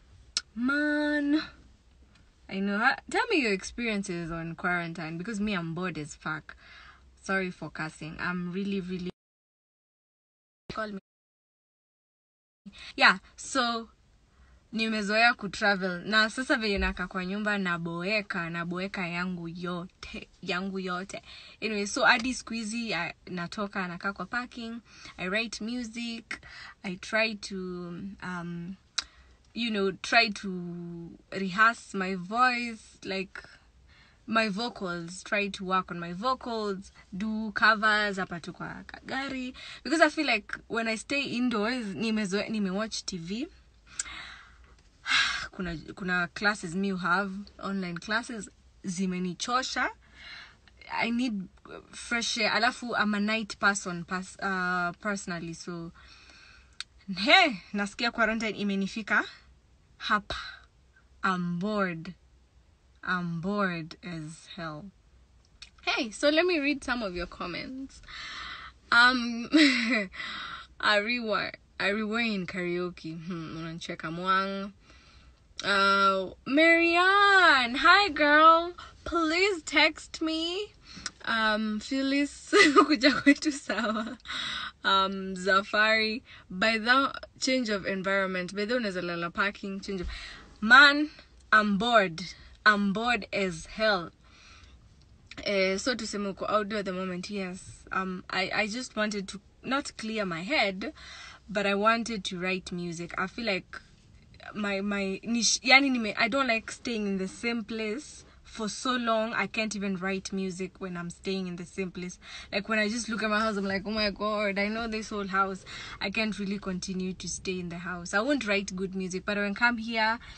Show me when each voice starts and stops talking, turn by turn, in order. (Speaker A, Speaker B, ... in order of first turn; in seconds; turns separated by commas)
Speaker A: 0.6-1.4, Speaker A: 2.5-6.6, Speaker A: 7.2-9.1, Speaker A: 10.7-11.0, Speaker A: 12.9-13.9, Speaker A: 14.7-28.8, Speaker A: 29.5-33.5, Speaker A: 34.3-43.5, Speaker A: 45.0-49.9, Speaker A: 50.9-55.9, Speaker A: 57.1-59.3, Speaker A: 60.0-60.5, Speaker A: 61.2-62.2, Speaker A: 63.0-64.9, Speaker A: 65.8-74.7, Speaker A: 75.6-80.7, Speaker A: 81.2-90.1, Speaker A: 90.6-94.1, Speaker A: 95.4-100.9, Speaker A: 101.5-103.8, Speaker A: 104.5-120.2